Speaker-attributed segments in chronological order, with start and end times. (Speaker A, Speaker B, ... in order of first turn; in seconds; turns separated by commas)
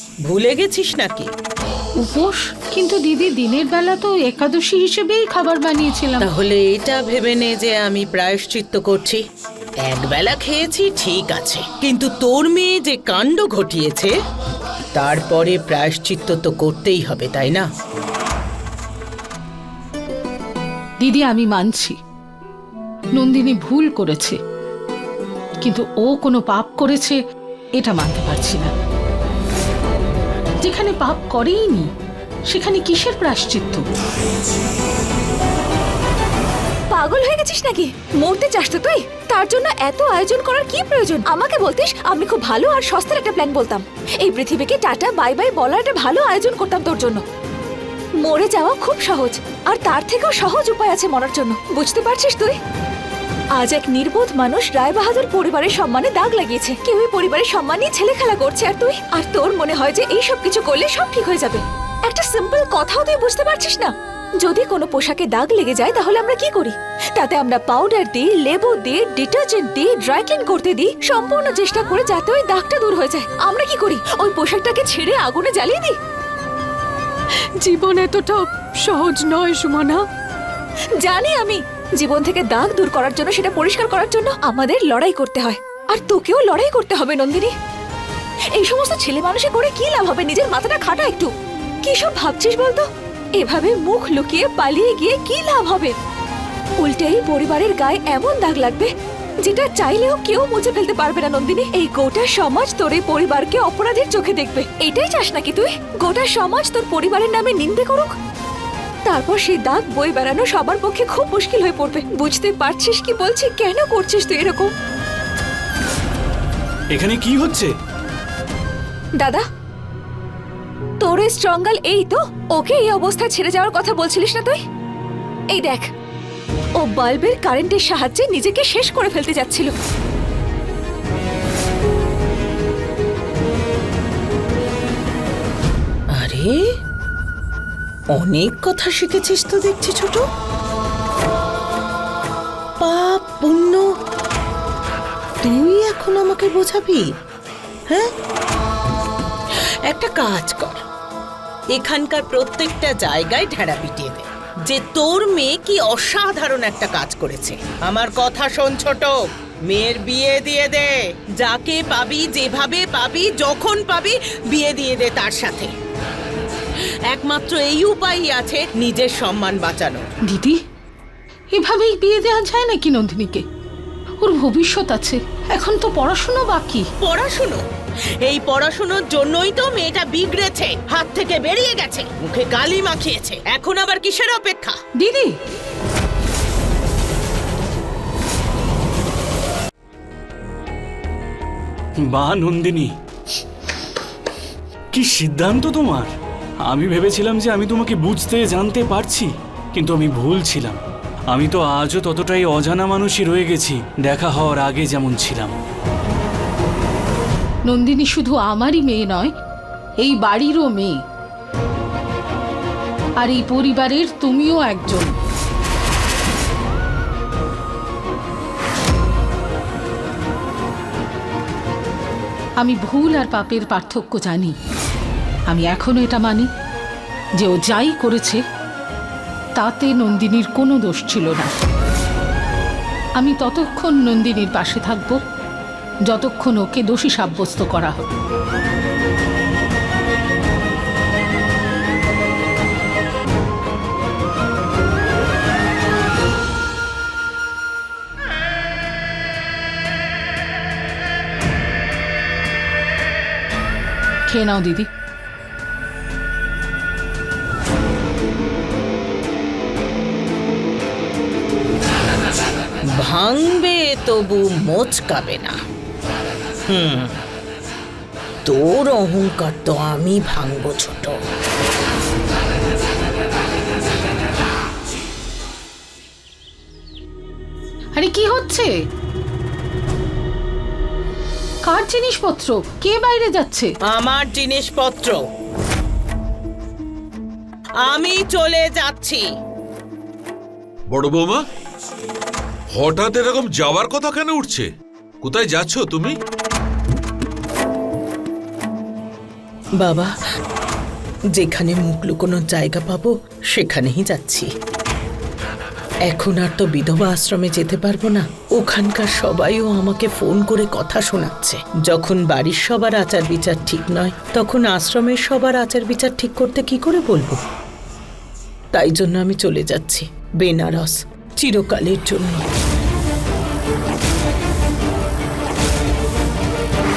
Speaker A: 0.3-1.3, Speaker B: 2.0-6.2, Speaker A: 6.2-9.2, Speaker A: 9.8-14.1, Speaker A: 14.9-17.6, Speaker B: 21.0-21.9, Speaker B: 23.1-24.4, Speaker B: 25.6-27.2, Speaker B: 27.8-28.7, Speaker B: 30.6-31.9, Speaker B: 32.5-33.8, Speaker C: 36.9-47.2, Speaker C: 48.2-52.6, Speaker C: 53.5-76.0, Speaker D: 77.6-80.0, Speaker C: 81.0-87.5, Speaker C: 88.5-91.3, Speaker C: 91.8-92.9, Speaker C: 93.4-95.9, Speaker C: 96.8-98.9, Speaker C: 99.4-108.1, Speaker C: 109.1-114.7, Speaker E: 116.9-117.7, Speaker C: 119.2-119.4, Speaker C: 121.0-124.6, Speaker C: 125.5-125.9, Speaker C: 126.8-129.7, Speaker A: 136.1-136.6, Speaker A: 138.1-140.2, Speaker A: 142.8-143.8, Speaker A: 145.4-147.0, Speaker A: 149.9-150.8, Speaker A: 151.7-165.7, Speaker A: 167.1-170.0, Speaker B: 170.3-170.6, Speaker B: 171.5-173.4, Speaker B: 174.2-176.8, Speaker A: 177.0-177.6, Speaker A: 178.2-184.8, Speaker B: 185.0-185.3, Speaker E: 192.0-192.9, Speaker E: 194.9-196.1, Speaker E: 196.6-200.8, Speaker E: 201.3-205.5, Speaker B: 207.7-209.3, Speaker B: 210.0-211.0, Speaker B: 213.2-215.1, Speaker B: 222.6-224.5, Speaker B: 225.5-226.5, Speaker B: 227.4-228.4, Speaker B: 229.6-231.5, Speaker B: 233.2-235.2, Speaker B: 236.1-238.0, Speaker B: 254.3-254.9, Speaker A: 263.0-265.5, Speaker A: 266.7-267.2, Speaker A: 268.4-271.1, Speaker B: 278.0-278.7, Speaker B: 281.7-283.7, Speaker A: 283.9-285.2, Speaker A: 287.9-289.2, Speaker F: 290.9-291.4, Speaker F: 292.7-294.7, Speaker F: 295.2-296.1, Speaker A: 299.8-300.1, Speaker A: 301.4-304.5, Speaker A: 306.1-317.4, Speaker A: 318.7-322.4